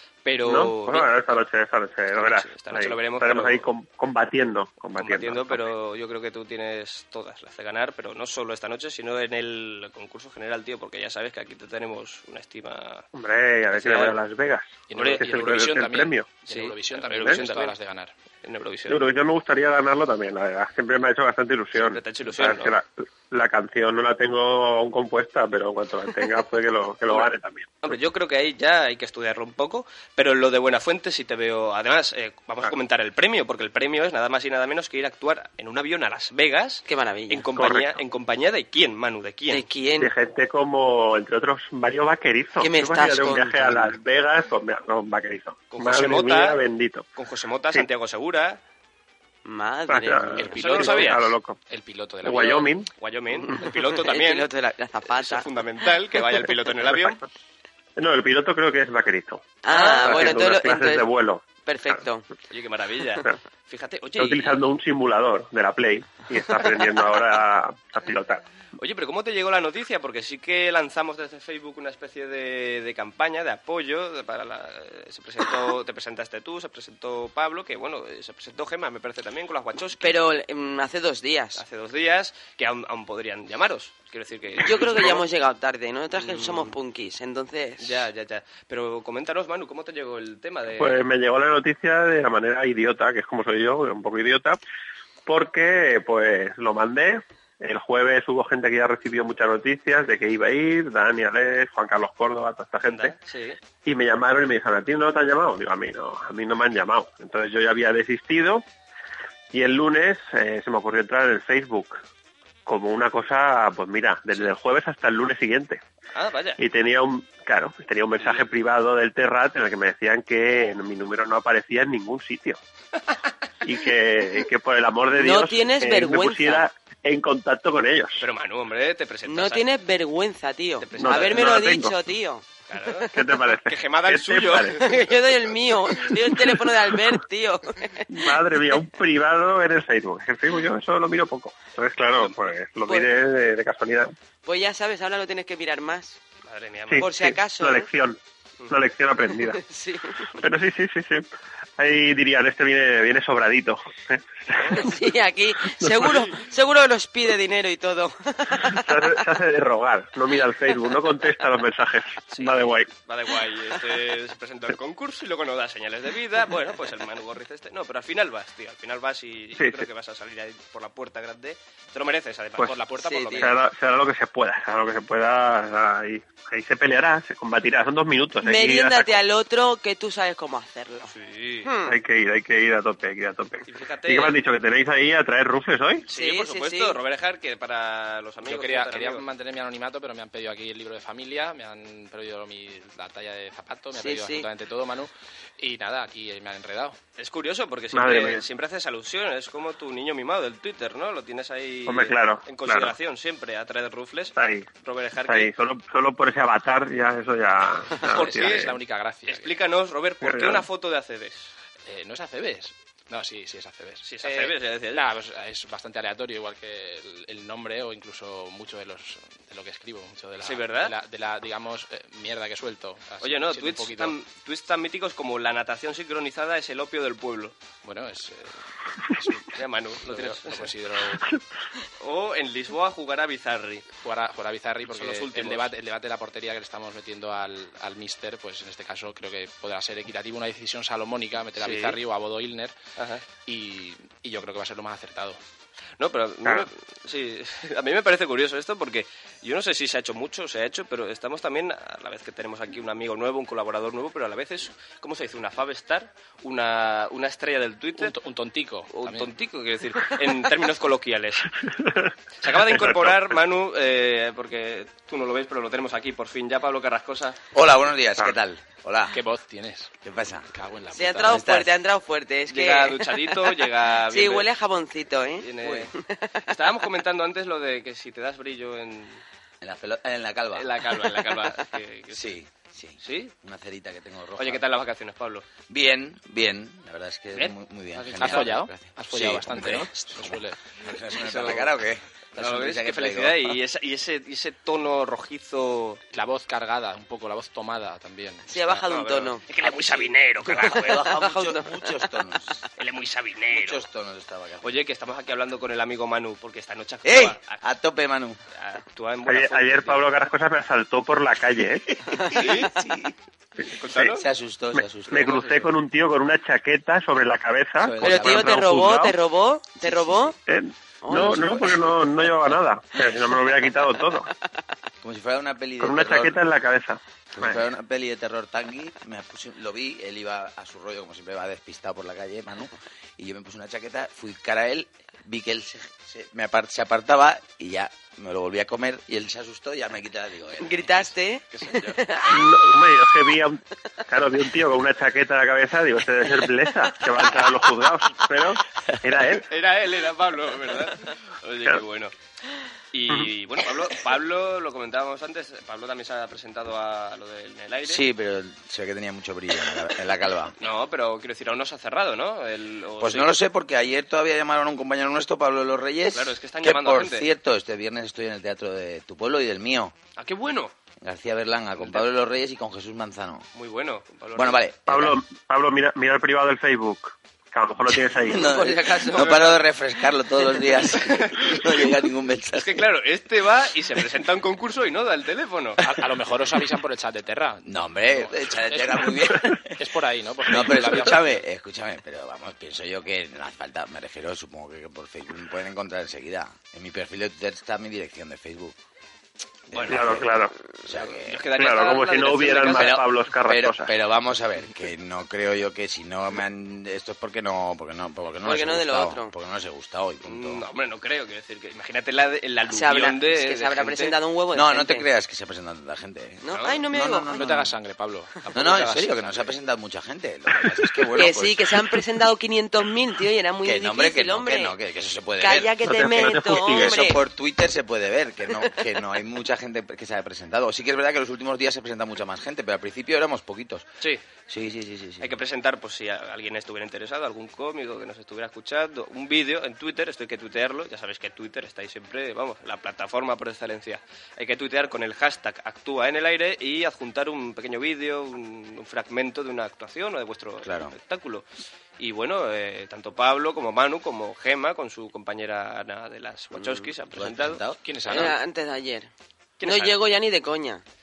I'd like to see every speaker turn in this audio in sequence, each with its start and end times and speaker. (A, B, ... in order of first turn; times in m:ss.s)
0:00.2-0:01.4 A
0:00.4-0:05.7 B
0:02.1-0:03.7 A
0:05.0-0:13.0 A
0:13.1-0:16.3 B
0:13.7-0:14.2 A
0:14.9-0:18.1 C
0:15.0-0:15.2 A
0:16.5-0:17.8 A
0:17.1-0:17.4 B
0:18.4-0:19.0 A
0:18.9-0:28.0 B
0:21.8-0:22.8 A
0:27.8-0:39.6 A
0:36.9-0:37.5 D
0:37.6-0:38.0 B
0:39.5-0:40.1 D
0:40.0-0:47.0 B
0:42.6-0:43.9 D
0:45.7-0:46.6 A
0:47.2-0:48.6 A
0:49.4-0:51.0 D
0:49.9-0:51.6 B
0:50.4-0:52.7 C
0:50.6-0:51.2 A
0:52.2-0:52.9 B
0:52.4-0:54.5 A
0:53.5-0:55.5 D
0:55.1-0:57.2 A
0:58.0-1:02.0 B
0:59.6-1:01.1 D
1:00.1-1:00.4 A
1:01.6-1:02.3 D
1:02.5-1:04.6 A
1:04.2-1:08.4 B
1:08.8-1:20.2 A
1:20.0-1:21.6 D
1:21.6-1:25.2 A
1:24.6-1:28.1 D
1:26.2-1:26.7 A
1:27.8-1:31.0 A
1:30.8-1:34.6 B
1:35.3-1:43.2 B
1:42.8-1:43.6 A
1:43.8-1:48.6 B
1:49.5-1:52.0 B
1:52.7-1:55.8 B
1:56.1-1:56.6 A
1:56.6-2:02.6 B
1:58.2-1:58.5 A
2:03.6-2:08.2 B
2:05.2-2:06.7 D
2:08.2-2:09.6 A
2:09.3-2:12.4 D
2:10.8-2:11.8 A
2:11.0-2:11.9 B
2:12.7-2:15.1 A
2:13.1-2:14.8 B
2:14.8-2:18.1 D
2:18.1-2:24.1 B
2:24.4-2:26.2 D
2:26.5-2:27.1 A
2:26.9-2:28.2 B
2:27.0-2:27.9 D
2:28.7-2:29.6 B
2:29.5-2:30.3 D
2:30.4-2:31.3 B
2:31.8-2:35.0 B
2:34.7-2:39.1 D
2:38.7-2:42.9 B
2:42.3-2:52.8 A
2:49.6-2:49.8 B
2:52.6-2:53.5 C
2:53.0-2:53.5 D
2:53.3-2:59.2 B
2:58.4-3:01.1 D
3:01.1-3:01.7 A
3:01.6-3:02.0 D
3:01.9-3:06.0 B
3:03.7-3:04.4 A
3:06.1-3:09.2 A
3:06.1-3:07.0 D
3:08.4-3:17.0 C
3:13.9-3:14.5 D
3:17.2-3:25.5 A
3:17.9-3:18.4 B
3:21.9-3:23.0 B
3:24.4-3:24.7 B
3:25.2-3:28.8 B
3:28.0-3:29.5 C
3:28.1-3:28.8 A
3:29.3-3:31.5 A
3:30.2-3:30.6 B
3:31.9-3:44.2 C
3:34.0-3:35.1 A
3:40.4-3:40.9 A
3:43.2-3:47.6 A
3:47.8-3:48.6 C
3:49.2-3:51.2 C
3:49.5-3:50.7 A
3:52.0-3:53.9 A
3:54.0-4:02.8 C
3:54.9-3:55.7 A
4:01.6-4:02.0 A
4:03.0-4:03.2 A
4:03.4-4:05.4 C
4:06.0-4:18.2 A
4:18.0-4:19.3 C
4:18.9-4:21.5 A
4:21.8-4:22.9 B
4:22.4-4:27.4 A
4:27.5-4:29.2 E
4:29.1-4:29.9 C
4:30.0-4:30.5 E
4:30.5-4:31.4 C
4:30.9-4:36.5 D
4:31.2-4:31.7 E
4:32.5-4:34.5 A
4:35.4-4:35.9 A
4:36.5-4:39.2 A
4:39.6-4:40.7 E
4:40.5-4:42.4 A
4:42.1-4:44.6 E
4:43.0-4:43.3 A
4:44.4-4:45.5 A
4:45.7-4:53.6 E
4:47.3-4:48.5 A
4:48.0-4:50.6 C
4:51.2-4:51.7 A
4:52.4-4:56.0 A
4:56.1-4:58.9 C
4:58.5-4:59.4 D
4:58.9-5:01.2 A
4:59.6-5:02.7 E
5:01.1-5:01.7 D
5:02.8-5:03.8 A
5:03.5-5:04.8 E
5:04.6-5:07.6 A
5:07.0-5:08.4 E
5:08.6-5:10.1 A
5:09.3-5:12.1 B
5:12.3-5:12.8 A
5:12.6-5:13.1 E
5:13.8-5:14.2 A
5:13.9-5:15.6 E
5:14.8-5:19.2 B
5:15.2-5:15.6 A
5:17.8-5:18.7 E
5:18.0-5:20.4 D
5:19.8-5:20.3 E
5:20.5-5:24.3 B
5:21.0-5:21.8 D
5:25.0-5:26.4 E
5:25.8-5:27.6 B
5:27.3-5:41.1 E
5:40.6-5:42.5 D
5:42.3-5:49.5 B
5:49.5-5:52.1 A
5:52.9-5:58.1 A
5:57.8-6:00.6 E
6:00.6-6:03.4 A
6:03.0-6:09.9 E
6:06.1-6:07.3 A
6:10.2-6:10.7 A
6:11.0-6:13.4 E
6:11.8-6:12.1 A
6:13.6-6:14.6 A
6:14.4-6:15.2 E
6:14.9-6:18.5 B
6:18.2-6:22.9 E
6:18.3-6:19.4 D
6:19.1-6:19.6 A
6:20.9-6:21.9 A
6:22.5-6:25.8 A
6:25.8-6:31.4 C
6:27.6-6:29.8 E
6:30.5-6:38.8 E
6:39.7-6:41.5 E
6:39.7-6:40.2 A
6:39.9-6:40.5 B
6:40.9-6:43.0 A
6:41.6-6:43.9 B
6:42.7-6:50.6 E
6:48.4-6:49.3 D
6:50.2-6:54.2 A
6:52.7-6:55.1 D
6:54.5-6:57.7 E
6:56.4-6:57.3 D
6:56.5-6:56.8 A
6:57.3-6:58.7 C
6:58.4-6:59.4 A
6:58.5-7:01.8 E
7:01.2-7:04.8 D
7:03.6-7:05.8 E
7:05.4-7:07.2 D
7:05.8-7:07.0 B
7:06.5-7:13.9 E
7:14.5-7:15.4 E
7:15.2-7:31.4 A
7:30.6-7:31.0 E
7:32.0-7:37.6 A
7:37.1-7:37.8 E
7:37.8-7:38.4 C
7:38.1-7:39.1 D
7:39.6-7:40.0 A
7:39.6-7:40.8 D